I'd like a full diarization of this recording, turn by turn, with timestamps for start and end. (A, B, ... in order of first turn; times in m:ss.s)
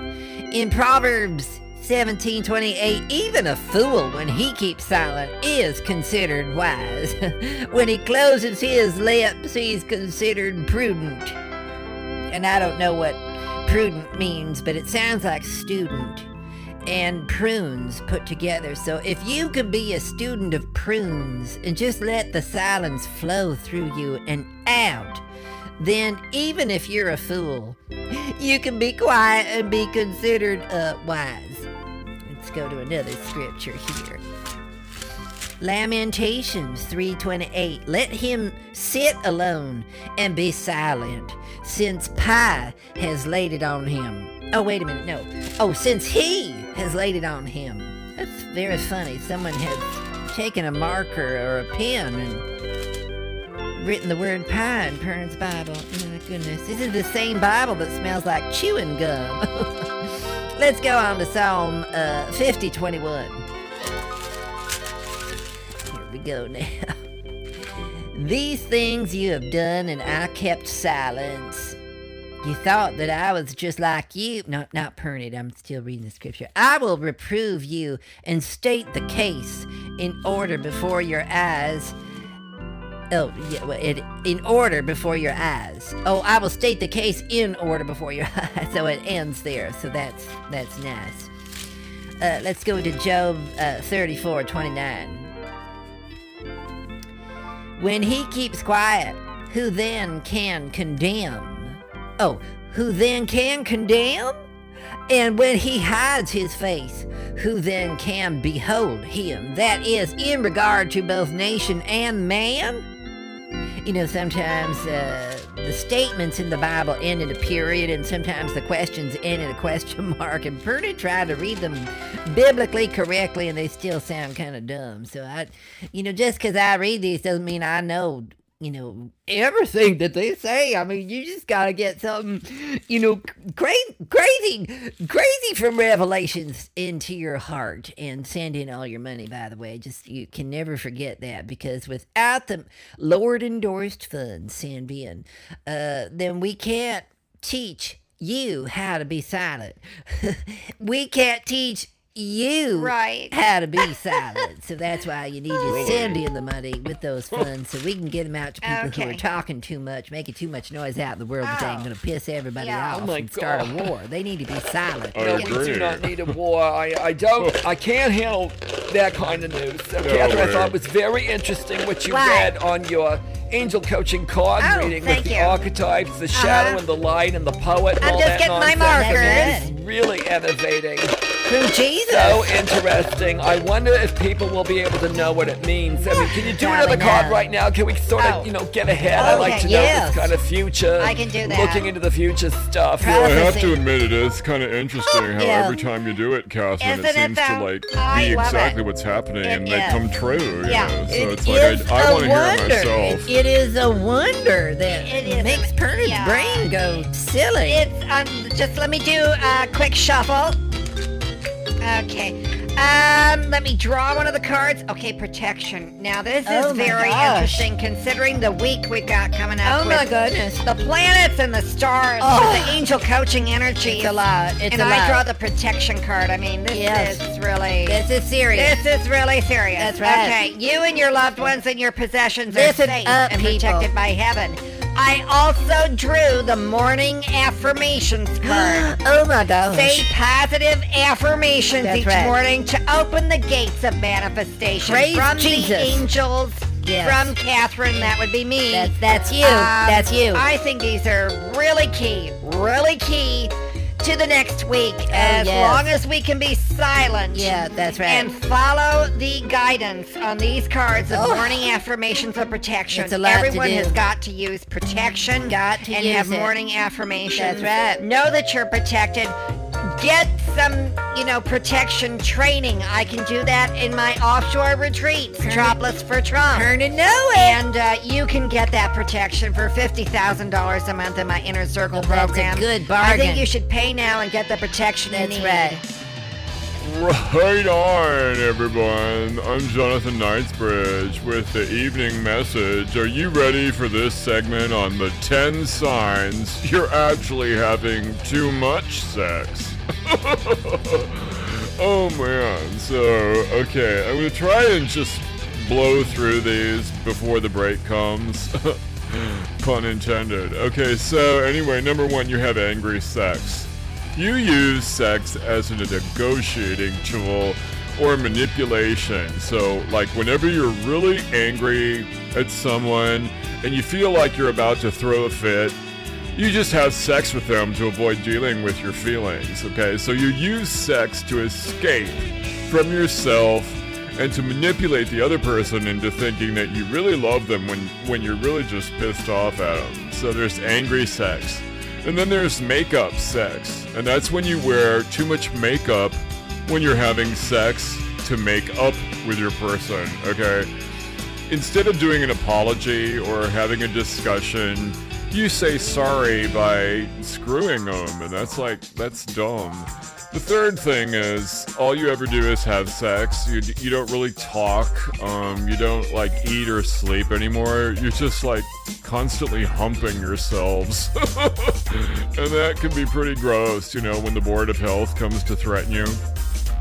0:00.5-0:11.4 A
0:12.3-0:16.3 A
0:16.8-0:25.2 A
0:25.8-0:31.7 A
0:32.2-0:34.2 A
0:35.6-0:52.4 A
0:53.8-1:03.4 A
1:05.9-1:07.0 A
1:08.1-1:11.8 A
1:12.4-1:21.9 A
1:23.1-1:31.3 A
1:32.2-1:35.3 A
1:37.8-1:44.4 A
1:45.1-1:52.9 A
1:53.8-2:45.6 A
2:32.8-2:34.2 B
2:35.6-2:36.2 C
2:38.6-2:39.2 B
2:41.4-2:41.9 B
2:42.6-2:43.0 B
2:42.9-2:43.9 D
2:45.1-2:46.2 C
2:45.2-3:01.1 D
2:50.0-2:50.8 C
2:52.1-2:52.5 B
2:54.6-2:55.6 B
2:56.3-2:56.8 B
2:58.0-2:59.6 B
2:58.9-2:59.7 A
3:01.5-3:02.6 A
3:02.1-3:13.2 D
3:06.3-3:07.4 A
3:08.2-3:08.5 B
3:09.1-3:09.8 B
3:09.2-3:10.3 A
3:11.0-3:11.9 B
3:13.0-3:13.8 A
3:13.0-3:23.3 C
3:15.3-3:15.8 A
3:16.8-3:18.8 B
3:19.4-3:20.0 B
3:20.6-3:21.0 B
3:21.1-3:27.8 A
3:24.9-3:26.7 B
3:27.7-3:30.6 B
3:31.8-3:40.1 B
3:36.4-3:37.7 A
3:39.6-3:40.6 A
3:40.6-3:58.9 B
3:42.2-3:42.8 A
3:43.8-3:45.2 A
3:46.7-3:47.2 A
3:47.8-3:48.8 A
3:49.8-3:50.4 A
3:52.5-3:53.9 A
3:58.4-4:00.1 A
3:59.7-4:36.7 B
4:01.8-4:02.4 A
4:04.8-4:06.0 A
4:06.8-4:07.3 A
4:08.7-4:10.4 A
4:15.1-4:15.9 A
4:17.3-4:18.3 A
4:21.1-4:21.6 A
4:22.9-4:24.0 A
4:25.4-4:26.5 A
4:27.3-4:28.0 A
4:35.4-4:35.8 A
4:36.5-4:37.6 A
4:37.3-4:45.8 B
4:41.9-4:43.5 A
4:45.1-4:45.8 A
4:46.8-5:25.8 C
5:26.3-5:50.7 C
5:51.5-6:16.2 C